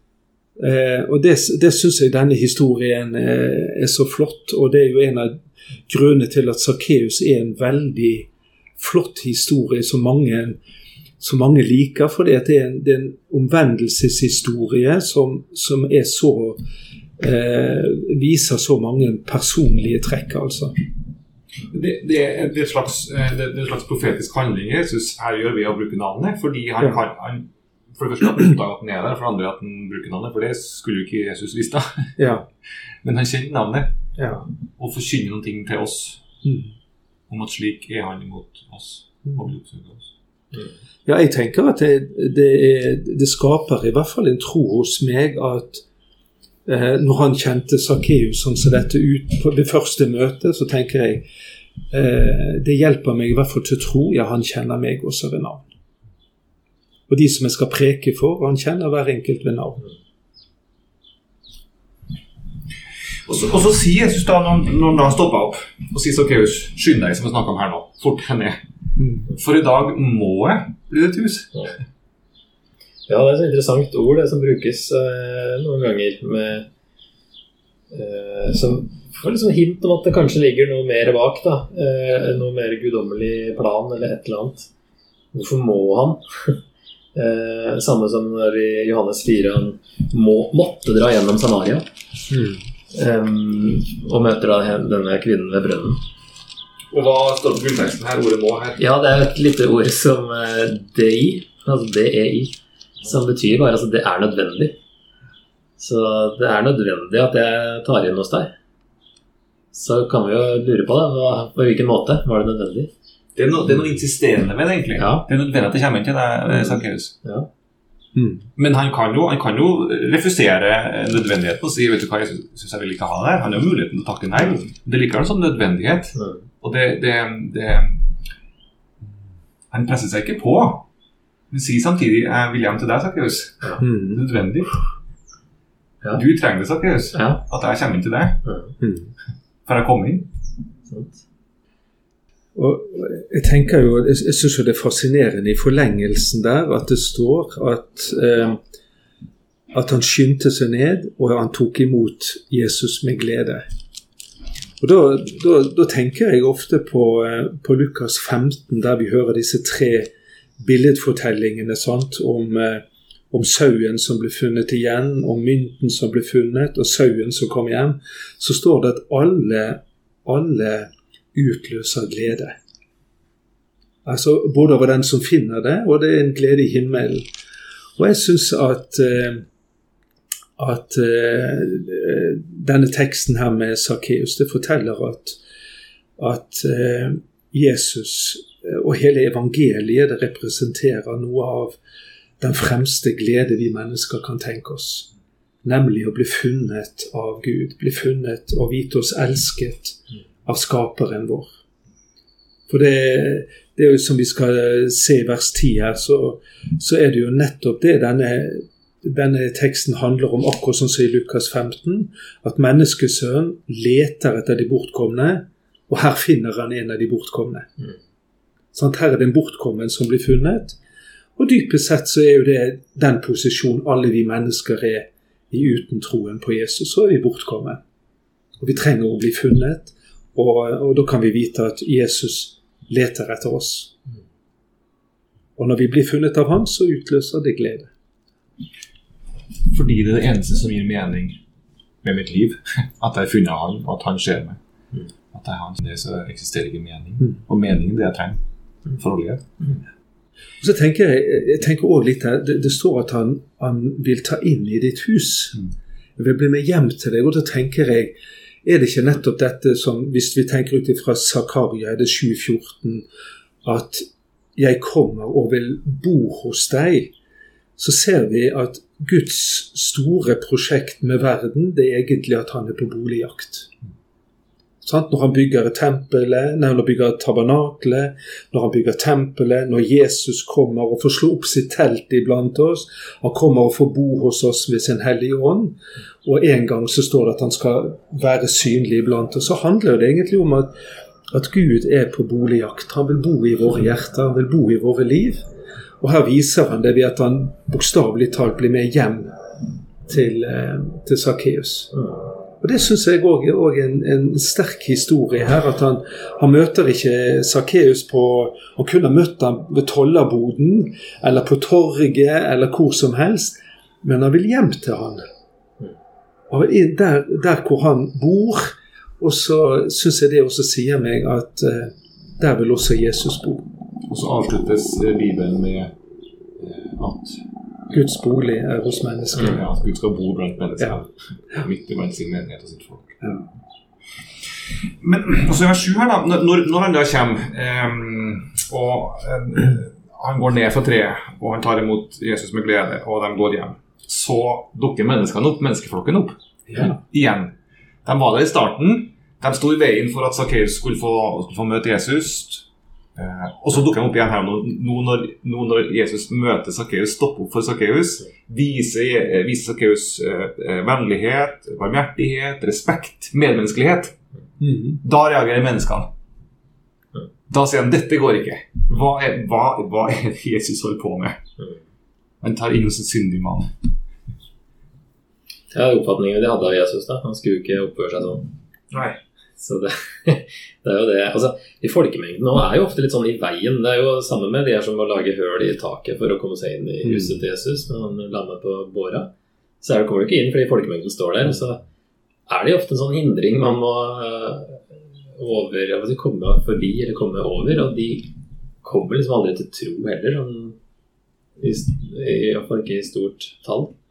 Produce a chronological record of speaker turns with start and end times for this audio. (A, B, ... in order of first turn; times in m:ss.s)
0:00.6-0:05.4 A
0:05.9-0:10.6 A
0:11.2-0:16.6 A
0:17.2-0:20.7 A
0:21.7-0:32.2 B
0:32.2-0:32.4 A
0:33.0-0:34.0 B
0:34.2-0:34.4 A
0:34.8-0:36.2 B
0:36.4-0:36.7 A
0:37.3-0:40.1 B
0:41.1-0:45.8 A
0:46.7-0:51.3 A
0:51.9-0:55.6 A
0:57.1-0:59.8 A
1:03.2-1:08.6 B
1:09.0-1:09.3 A
1:09.3-1:11.5 B
1:13.1-1:16.7 C
1:17.9-1:24.7 C
1:25.3-1:26.6 C
1:27.2-1:31.8 C
1:32.3-1:32.6 A
1:32.9-1:36.0 C
1:36.9-1:38.8 B
1:38.8-1:44.8 C
1:45.8-1:48.5 C
1:49.7-1:52.9 C
1:53.4-1:57.1 B
1:55.0-1:55.3 C
1:56.6-1:57.5 C
1:58.2-1:58.5 A
1:58.6-2:08.0 B
2:06.2-2:06.4 C
2:09.7-2:10.9 B
2:11.5-2:14.8 B
2:13.8-2:14.2 A
2:16.1-2:18.4 B
2:17.1-2:17.4 C
2:18.4-2:18.7 C
2:18.8-2:19.1 A
2:19.7-2:20.3 B
2:20.9-2:21.2 C
2:22.6-2:28.6 A
2:29.7-2:33.6 A
2:34.8-2:52.6 A
2:54.0-2:57.3 A
2:58.0-2:59.4 A
3:00.6-3:05.4 A
3:06.2-3:11.8 A
3:12.4-3:15.1 A
3:15.6-3:21.6 A
3:22.7-3:37.7 A
3:38.7-3:40.8 A
3:41.4-3:47.8 A
3:48.6-3:53.9 A
3:55.6-3:57.9 A
3:59.7-4:01.4 B
4:02.0-4:04.6 B
4:05.3-4:08.4 B
4:08.9-4:09.5 B
4:10.6-4:15.6 A
4:16.2-4:23.1 A
4:23.6-4:27.1 A
4:27.8-4:33.7 A
4:34.8-4:50.7 A
4:51.3-4:55.4 A
4:56.0-4:59.4 A
5:00.1-5:01.9 A
5:02.6-5:15.2 A
5:16.5-5:23.7 A
5:24.1-5:25.9 B
5:26.6-5:27.4 B
5:27.9-5:29.6 A
5:29.4-5:33.2 B
5:35.0-5:47.5 B
5:46.7-5:47.0 A
5:48.0-5:52.6 B
5:53.2-6:04.2 B
6:04.6-6:05.0 A
6:05.0-6:06.1 B
6:07.5-6:11.4 B
6:12.4-6:13.7 B
6:15.7-6:18.5 C
6:18.9-6:19.2 B
6:19.6-6:31.8 C
6:27.0-6:27.3 A
6:32.5-6:34.8 C
6:35.4-6:38.3 C
6:38.8-6:40.8 C
6:41.6-6:43.9 C